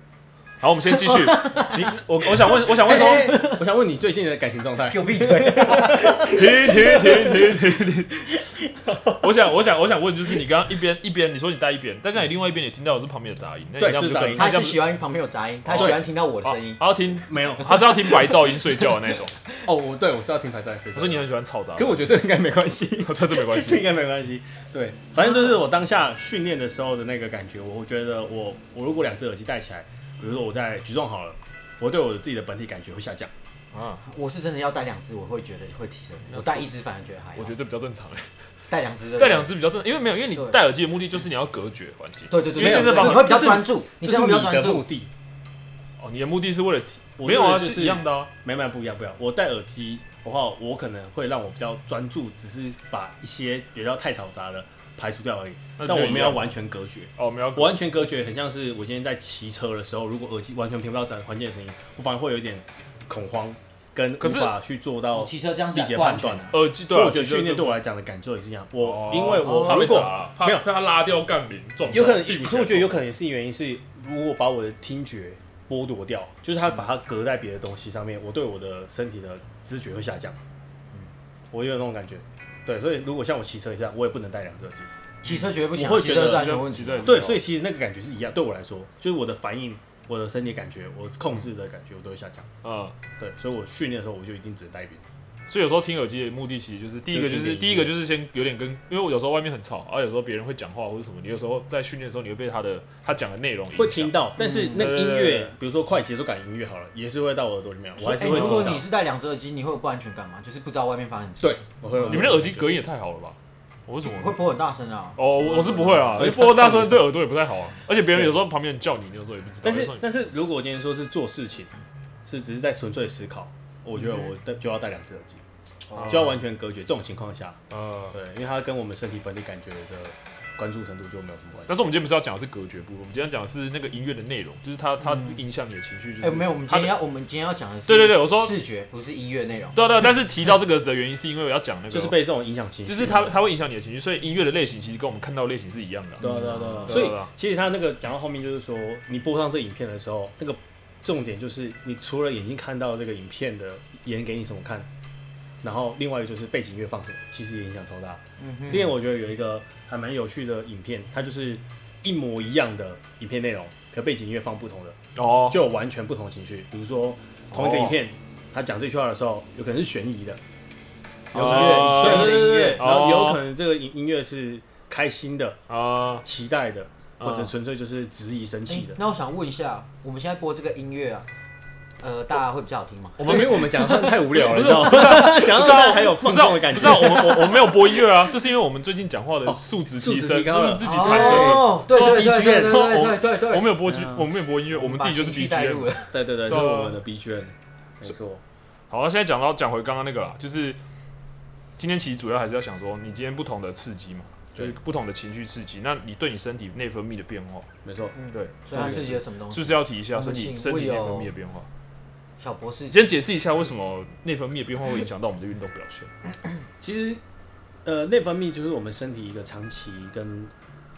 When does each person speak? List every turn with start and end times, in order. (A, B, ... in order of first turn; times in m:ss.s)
0:00.6-0:03.4 A
0:01.0-0:01.9 B
0:02.4-0:03.6 B
0:02.7-0:07.6 C
0:04.9-0:06.7 B
0:05.7-0:08.4 A
0:08.8-0:09.3 C
0:09.2-0:14.8 A
0:13.8-0:14.5 C
0:14.3-0:16.8 B
0:15.7-0:16.0 C
0:15.7-0:19.3 A
0:17.3-0:18.6 C
0:19.6-0:33.3 C
0:20.9-0:22.1 A
0:23.0-0:23.8 A
0:33.7-0:34.0 A
0:34.0-0:37.5 B
0:36.3-0:36.7 A
0:37.4-0:38.3 A
0:38.7-0:39.5 B
0:39.2-0:43.4 A
0:42.3-0:44.8 B
0:42.6-0:45.1 C
0:46.0-0:48.3 A
0:47.2-1:10.6 C
0:55.8-0:56.5 A
0:57.2-0:57.8 A
1:04.2-1:04.5 A
1:05.1-1:06.5 B
1:06.5-1:07.8 A
1:08.8-1:13.0 A
1:09.4-1:10.0 B
1:11.9-1:20.4 C
1:21.5-1:24.9 C
1:25.2-1:27.2 B
1:25.7-1:26.4 C
1:26.2-1:27.4 A
1:27.0-1:32.5 C
1:32.6-1:32.9 A
1:33.2-1:35.0 C
1:35.5-1:45.5 A
1:37.1-1:37.9 C
1:43.7-1:48.8 C
1:44.4-1:44.9 B
1:48.0-1:52.2 B
1:48.2-1:48.8 A
1:51.4-1:52.7 C
1:52.0-1:54.4 A
1:54.0-1:55.6 B
1:55.2-2:00.1 A
1:55.4-1:57.1 C
1:58.1-1:58.4 C
1:59.6-2:01.7 C
2:02.2-2:05.4 C
2:05.9-2:06.4 A
2:06.0-2:07.6 C
2:07.7-2:08.1 A
2:08.1-2:11.8 C
2:11.7-2:17.0 A
2:15.1-2:15.4 B
2:16.2-2:19.8 B
2:17.9-2:18.6 A
2:19.7-2:22.2 A
2:21.9-2:23.3 C
2:22.8-2:27.3 A
2:26.2-2:27.0 B
2:26.2-2:34.9 C
2:35.6-2:45.0 C
2:38.4-2:38.9 B
2:45.2-2:45.6 A
2:45.5-2:50.4 C
2:47.5-2:48.0 A
2:51.3-2:55.6 C
2:51.3-2:52.8 B
2:51.3-2:53.4 A
2:55.7-2:56.2 A
2:56.2-2:59.0 C
2:57.2-2:57.5 A
2:58.7-3:01.3 B
3:02.0-3:04.1 B
3:03.2-3:08.0 C
3:03.2-3:17.0 A
3:09.4-3:12.9 C
3:10.8-3:16.1 B
3:16.1-3:18.4 C
3:18.9-3:20.8 A
3:21.8-3:27.7 A
3:27.8-3:28.1 C
3:28.1-3:31.3 B
3:28.3-3:31.7 A
3:28.7-3:29.2 C
3:32.4-3:33.0 B
3:32.9-3:36.1 A
3:36.8-3:37.2 C
3:37.8-3:40.5 C